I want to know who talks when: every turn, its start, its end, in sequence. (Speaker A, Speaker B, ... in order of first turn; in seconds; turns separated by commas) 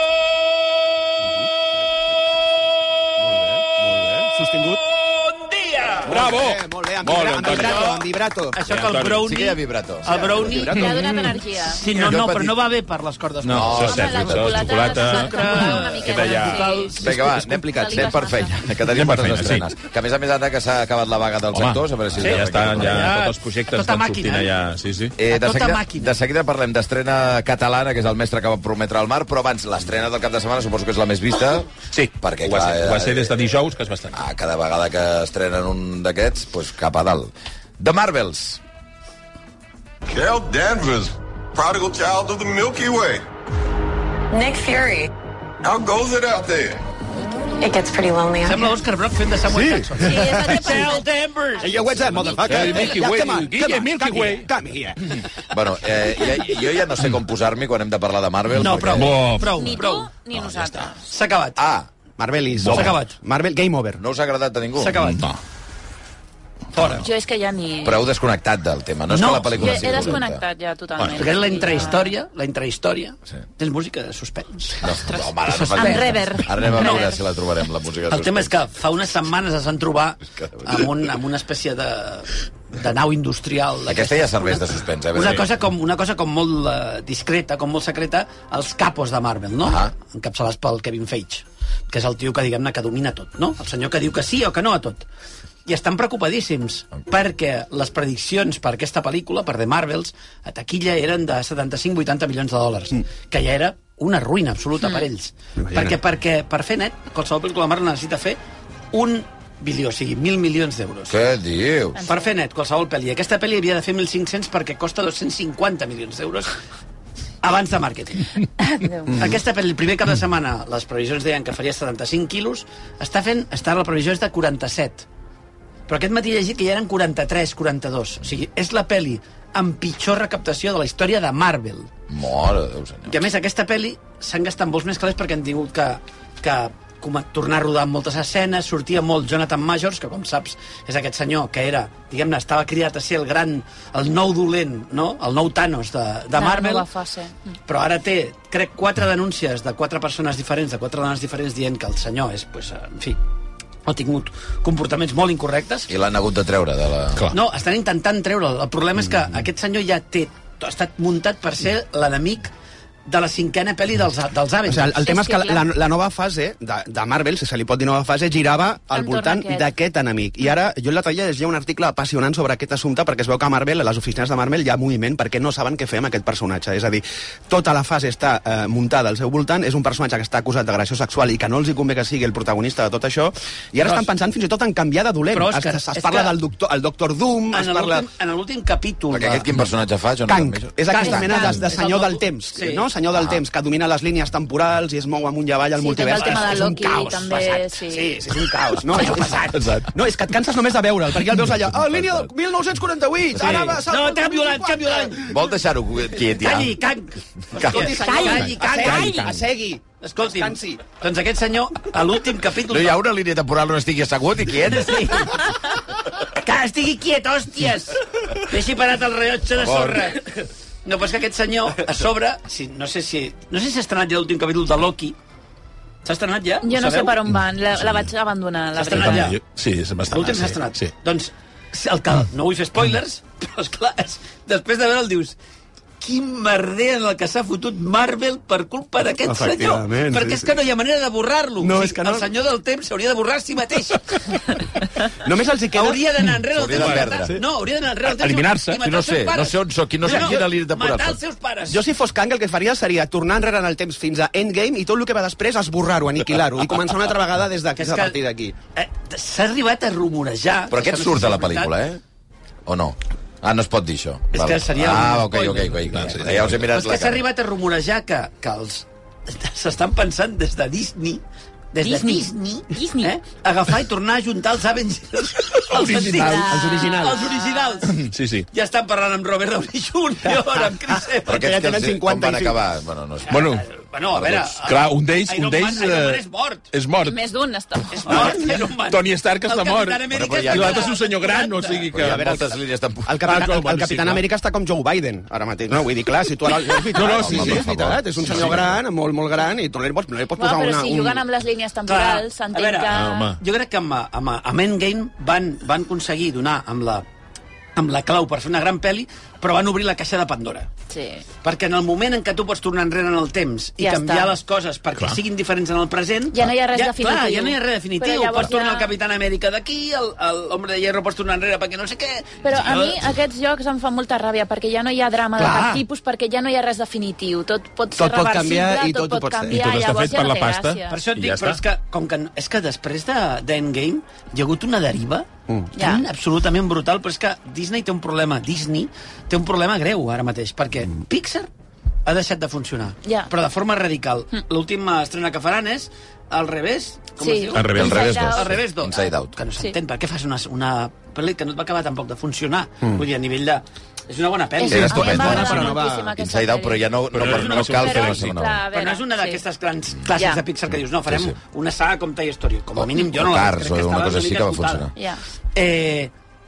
Speaker A: 1.2-1.5, Speaker A: 3.2-4.8, Speaker B: 4.8-6.1, Speaker C: 6.0-8.0, Speaker A: 6.0-8.6, Speaker B: 7.4-11.0, Speaker C: 8.7-9.3, Speaker D: 9.2-10.5, Speaker A: 10.1-11.2, Speaker E: 10.5-11.8, Speaker B: 11.6-14.1, Speaker D: 11.8-12.6, Speaker C: 13.4-16.7, Speaker D: 13.5-14.7, Speaker E: 13.8-18.6, Speaker B: 14.7-17.0, Speaker D: 16.9-23.1, Speaker A: 17.0-18.0, Speaker C: 18.9-19.7, Speaker C: 21.5-25.1, Speaker B: 22.3-24.5, Speaker D: 25.2-33.3, Speaker B: 25.3-26.2, Speaker C: 31.9-34.2, Speaker D: 34.1-38.6, Speaker F: 40.0-43.2, Speaker G: 44.3-45.1, Speaker F: 45.6-46.8, Speaker G: 47.6-48.8, Speaker B: 48.4-51.7, Speaker A: 49.5-50.6, Speaker E: 50.0-53.0, Speaker A: 51.6-55.2, Speaker D: 51.9-52.3, Speaker C: 52.3-54.5, Speaker D: 55.5-59.2, Speaker B: 58.5-60.1, Speaker C: 58.7-59.6, Speaker E: 59.4-61.0, Speaker D: 60.3-60.9, Speaker B: 61.1-61.6, Speaker D: 61.6-61.9, Speaker A: 62.2-64.0, Speaker C: 62.6-62.9, Speaker B: 62.7-63.1, Speaker D: 64.0-65.1, Speaker B: 64.8-65.3, Speaker C: 65.0-65.4, Speaker D: 66.7-67.1, Speaker E: 66.8-68.0, Speaker D: 67.8-70.4, Speaker B: 69.1-69.7, Speaker E: 69.6-72.1, Speaker C: 71.0-71.2, Speaker B: 71.2-77.0, Speaker D: 74.8-78.5, Speaker E: 74.9-77.2, Speaker B: 78.1-95.0, Speaker D: 80.4-81.0, Speaker D: 83.9-85.5, Speaker D: 89.6-89.9, Speaker B: 95.7-108.4, Speaker A: 105.6-106.0, Speaker B: 108.9-111.2, Speaker D: 111.1-112.0, Speaker E: 112.0-112.3, Speaker B: 112.0-116.5, Speaker B: 117.4-118.4, Speaker E: 118.6-119.3, Speaker B: 119.1-125.0, Speaker B: 125.9-131.9, Speaker D: 132.1-133.2, Speaker B: 133.1-146.9, Speaker E: 146.3-147.3, Speaker B: 147.7-153.2, Speaker B: 153.8-155.9, Speaker D: 155.9-157.3, Speaker B: 157.3-162.5, Speaker B: 163.1-164.9, Speaker A: 164.7-188.1, Speaker E: 165.0-165.6, Speaker E: 168.9-169.7, Speaker B: 183.8-184.1, Speaker B: 185.3-186.3, Speaker B: 187.5-189.5, Speaker D: 189.1-191.1, Speaker A: 190.2-197.3, Speaker B: 190.9-192.8, Speaker E: 190.9-191.6, Speaker D: 193.1-193.4, Speaker E: 195.8-198.2, Speaker B: 196.1-197.7, Speaker A: 197.9-205.3, Speaker B: 198.4-199.4, Speaker C: 199.5-199.8, Speaker D: 201.7-202.3, Speaker D: 203.3-203.7, Speaker B: 203.4-205.2, Speaker D: 205.2-206.8, Speaker B: 206.3-209.1, Speaker A: 207.6-210.8, Speaker D: 207.6-207.9, Speaker E: 207.9-209.3, Speaker C: 208.2-209.4, Speaker B: 210.0-213.0, Speaker D: 212.7-215.3, Speaker B: 214.7-215.5, Speaker B: 216.3-225.2, Speaker D: 219.6-220.0, Speaker B: 226.0-227.2, Speaker E: 226.6-229.3, Speaker C: 227.8-228.1, Speaker B: 228.8-229.4, Speaker C: 228.9-230.9, Speaker B: 230.1-235.3, Speaker B: 236.0-244.3, Speaker A: 239.2-240.6, Speaker A: 241.6-242.3, Speaker A: 245.2-246.3, Speaker B: 245.7-251.8, Speaker D: 246.5-247.4, Speaker C: 248.1-248.8, Speaker D: 248.8-251.2, Speaker A: 250.1-250.4, Speaker A: 251.7-258.5, Speaker B: 257.8-258.2, Speaker B: 258.7-261.7, Speaker D: 260.7-262.0, Speaker D: 262.6-267.2, Speaker B: 264.3-278.0, Speaker C: 265.9-266.5, Speaker E: 271.8-273.1, Speaker C: 275.7-276.4, Speaker A: 275.8-277.3, Speaker E: 275.8-277.8, Speaker C: 277.9-278.5, Speaker B: 278.5-281.5, Speaker A: 281.2-282.6, Speaker D: 281.3-283.6, Speaker B: 283.3-286.7, Speaker C: 283.3-283.6, Speaker D: 284.1-284.5, Speaker C: 284.6-287.2, Speaker E: 287.1-288.4, Speaker B: 287.9-291.9, Speaker C: 288.0-292.4, Speaker D: 290.1-290.9, Speaker D: 291.9-293.2, Speaker A: 292.0-292.5, Speaker A: 293.0-301.2, Speaker C: 293.2-294.2, Speaker C: 296.8-298.7, Speaker D: 297.0-298.8, Speaker E: 300.4-303.3, Speaker B: 301.9-307.1, Speaker C: 302.9-303.4, Speaker B: 307.8-310.7, Speaker E: 310.9-311.2, Speaker B: 311.4-323.1, Speaker E: 313.8-314.4, Speaker E: 316.3-318.9, Speaker E: 322.4-331.0, Speaker B: 325.4-325.8, Speaker A: 327.9-329.6, Speaker C: 329.5-331.6, Speaker B: 330.9-341.5, Speaker E: 335.7-336.0, Speaker B: 342.0-355.7, Speaker E: 343.0-343.3, Speaker E: 347.2-348.6, Speaker C: 347.5-348.0, Speaker D: 347.7-349.4, Speaker E: 354.6-356.9, Speaker D: 354.7-358.6, Speaker A: 354.8-356.2, Speaker C: 357.1-358.3, Speaker B: 357.2-364.9, Speaker E: 357.6-359.4, Speaker E: 360.1-360.4, Speaker D: 361.1-361.4, Speaker D: 362.7-364.9, Speaker E: 364.9-365.2, Speaker B: 365.5-366.1